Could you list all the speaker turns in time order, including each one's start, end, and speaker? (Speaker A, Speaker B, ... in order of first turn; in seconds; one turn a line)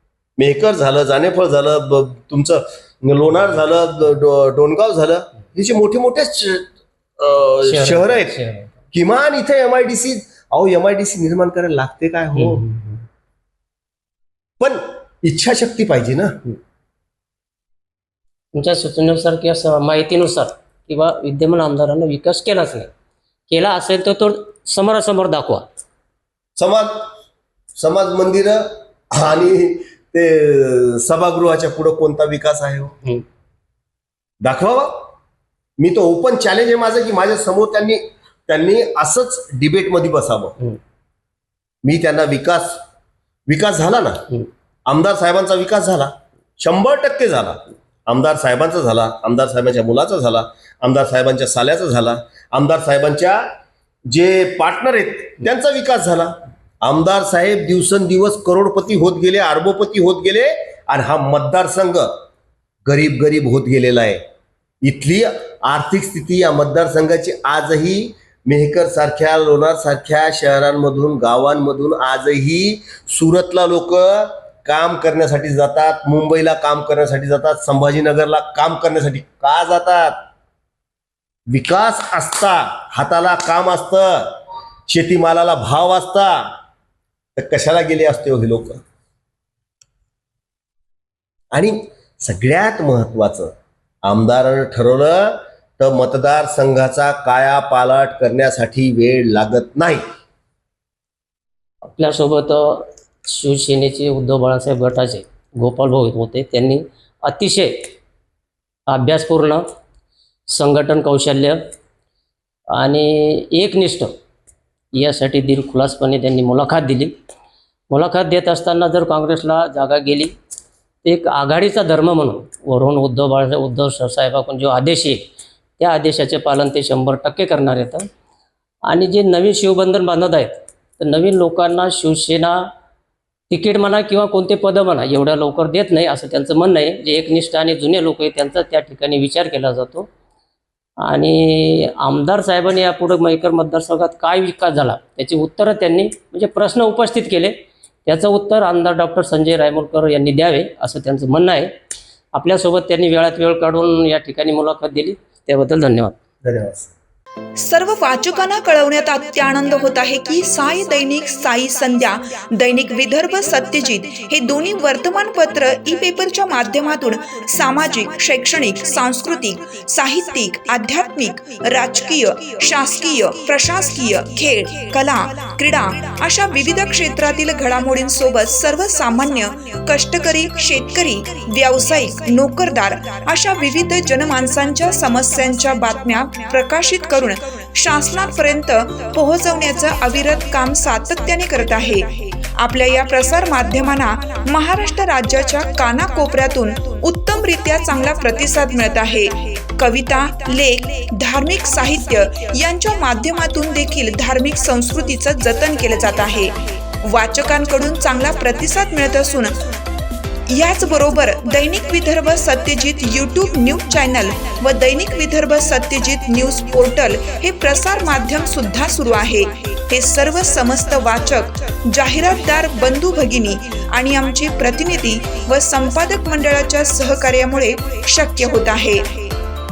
Speaker A: 0.4-8.4
Speaker B: 7.6-8.7
Speaker A: 8.9-12.7
Speaker B: 12.3-13.0
Speaker A: 14.6-16.4
Speaker B: 18.5-22.9
Speaker B: 23.5-25.7
Speaker A: 26.6-27.1
Speaker A: 27.8-33.0
Speaker A: 34.4-35.1
Speaker A: 35.8-40.6
Speaker A: 41.8-42.8
Speaker A: 43.5-44.3
Speaker A: 44.9-53.5
Speaker A: 54.1-62.2
Speaker A: 62.9-64.2
Speaker A: 64.8-80.2
Speaker A: 81.5-86.6
Speaker A: 87.4-88.8
Speaker A: 91.5-100.0
Speaker B: 101.9-107.9
Speaker B: 108.9-109.7
Speaker B: 110.5-111.7
Speaker B: 112.7-114.2
Speaker B: 114.9-117.2
Speaker B: 117.9-120.3
Speaker B: 121.0-125.2
Speaker B: 125.8-128.1
Speaker B: 128.9-132.7
Speaker B: 133.5-140.1
Speaker B: 141.0-151.8
Speaker B: 152.3-156.2
Speaker A: 156.4-156.9
Speaker C: 157.6-209.7
Speaker C: 210.5-229.3